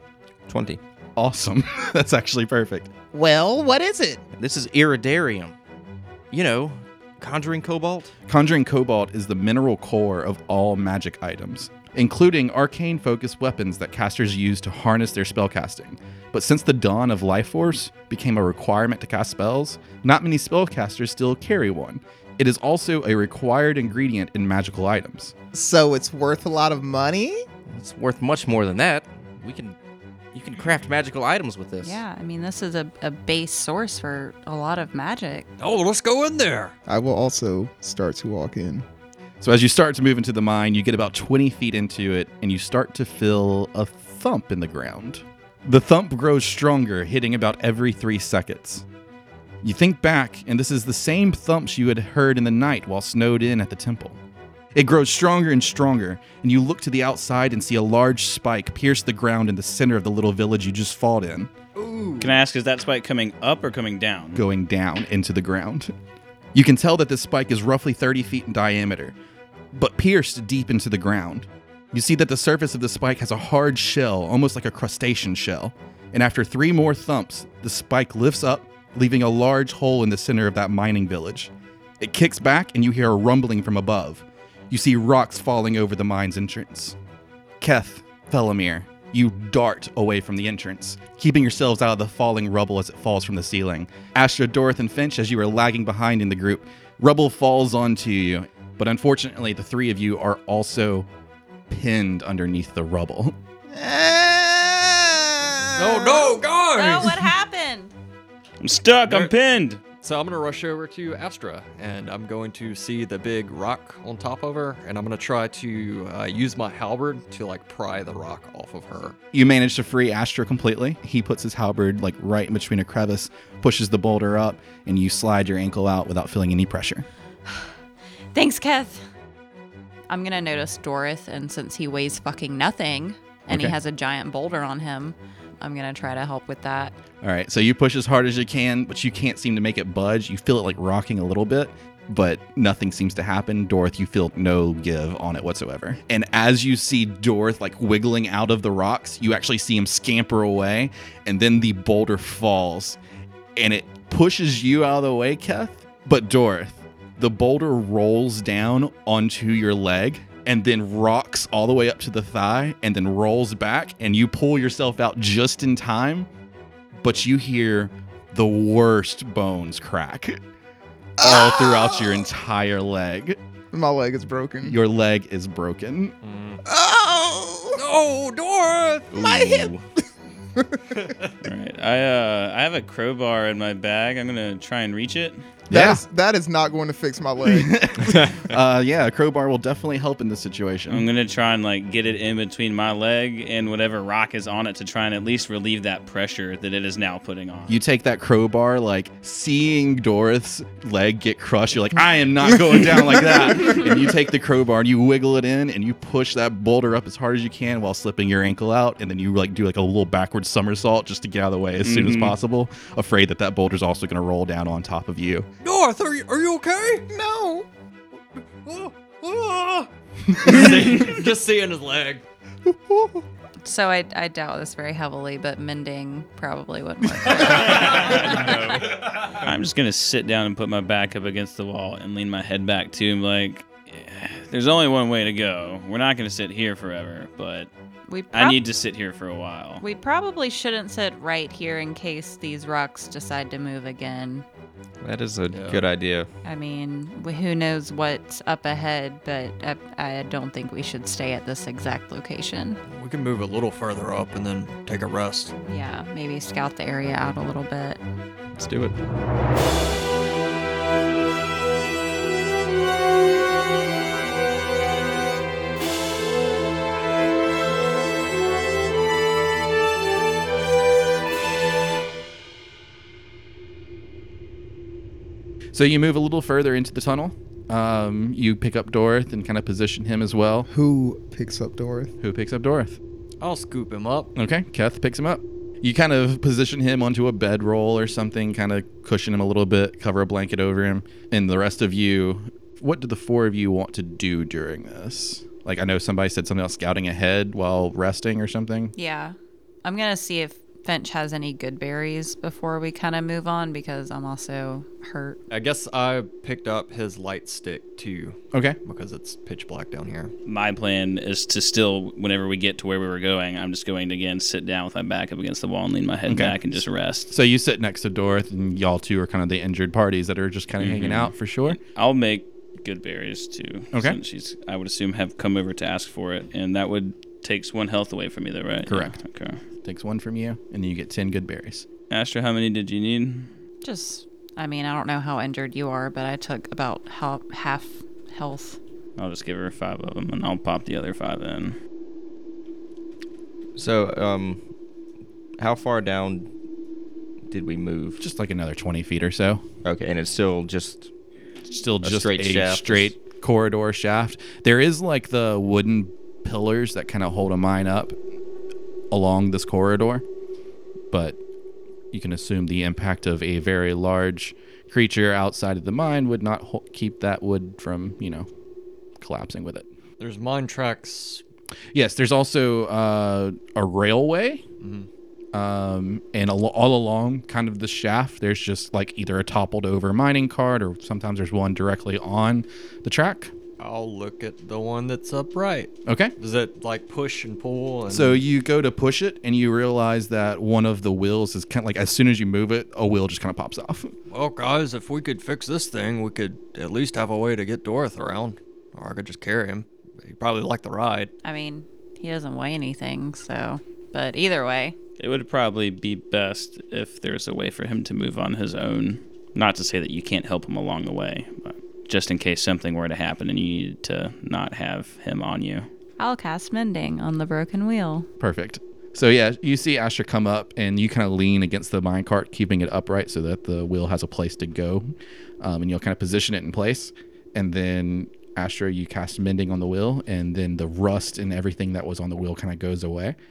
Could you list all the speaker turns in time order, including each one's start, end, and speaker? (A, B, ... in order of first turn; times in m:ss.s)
0:00.5-0:00.8 A
0:01.2-0:02.9 B
0:03.1-0:04.2 C
0:04.4-0:05.6 A
0:06.3-0:08.1 A
0:08.3-0:25.3 B
0:25.5-0:27.4 C
0:27.7-0:29.8 A
0:30.3-0:32.0 A
0:31.8-0:35.5 D
0:35.6-0:36.7 E
0:36.9-0:38.8 C
0:39.4-0:48.8 B
0:49.6-0:54.2 B
0:54.7-1:01.5 B
1:01.7-1:02.4 E
1:02.2-1:04.4 F
1:04.3-1:05.9 B
1:06.5-1:09.2 B
1:09.7-1:27.0 B
1:27.6-1:41.1 B
1:41.7-1:43.4 B
1:43.7-1:46.4 C
1:45.7-1:47.3 E
1:46.7-1:47.9 D
1:48.6-1:49.8 F
1:49.0-1:49.3 E
1:50.0-1:59.2 E
1:59.3-2:07.1 B
2:07.5-2:07.7 D
2:08.3-2:09.0 D
2:10.1-2:16.9 D
2:13.5-2:13.8 B
2:17.2-2:33.0 B
2:33.6-2:46.3 B
2:47.0-2:50.4 B
2:51.2-2:52.3 C
2:51.2-2:53.4 B
2:53.7-2:54.8 C
2:54.6-2:56.1 B
2:56.2-2:56.6 E
2:56.6-2:57.8 C
2:57.8-2:59.2 E
2:59.1-2:59.8 A
2:59.1-2:59.8 C
3:00.6-3:01.0 C
3:00.9-3:01.4 E
3:01.4-3:05.4 F
3:05.7-3:06.0 B
3:05.7-3:08.2 C
3:07.4-3:11.0 B
3:08.0-3:08.5 A
3:10.9-3:17.8 F
3:17.7-3:35.5 B
3:31.8-3:32.4 F
3:35.6-3:37.1 E
3:37.1-3:37.7 C
3:38.6-3:42.2 E
3:43.6-3:48.8 D
3:47.3-3:57.7 F
3:48.8-3:49.3 E
3:58.1-3:58.6 D
3:58.3-3:59.8 F
3:59.8-4:04.4 D
4:05.0-4:06.3 A
4:05.5-4:05.9 E
4:06.4-4:12.8 D
4:12.9-4:15.5 E
4:15.6-4:18.0 D
4:18.5-4:19.0 A
4:35.7-4:40.7 B
4:40.7-4:42.1 C
4:42.2-4:43.0 B
4:43.4-4:44.3 E
4:44.4-4:58.9 B
4:59.0-5:05.4 D
5:05.5-5:10.3 E
5:10.4-5:17.3 F
5:16.3-5:16.6 B
5:17.3-5:21.8 B
5:20.8-5:29.6 F
5:23.9-5:24.2 B
5:28.8-5:29.1 B
5:29.8-5:31.8 B
5:32.1-5:33.5 F
5:33.8-5:38.8 D
5:39.2-5:41.8 F
5:43.8-5:44.6 A
5:45.6-5:46.5 A
5:47.5-5:48.2 A
5:48.2-5:49.6 B
5:49.8-5:51.1 A
5:51.6-5:58.2 B
5:52.0-5:53.1 A
5:59.1-6:00.2 B
6:01.1-6:01.4 B
6:02.1-6:08.5 B
6:09.2-6:09.9 B
6:10.2-6:11.4 E
6:11.9-6:14.6 B
6:14.8-6:15.1 E
6:15.5-6:23.5 B
6:23.8-6:28.4 E
6:26.0-6:26.3 B
6:28.1-6:34.1 B
6:34.3-6:41.3 E
6:41.4-6:44.9 D
6:45.2-6:55.9 F
6:56.2-6:58.3 D
6:58.4-7:13.4 B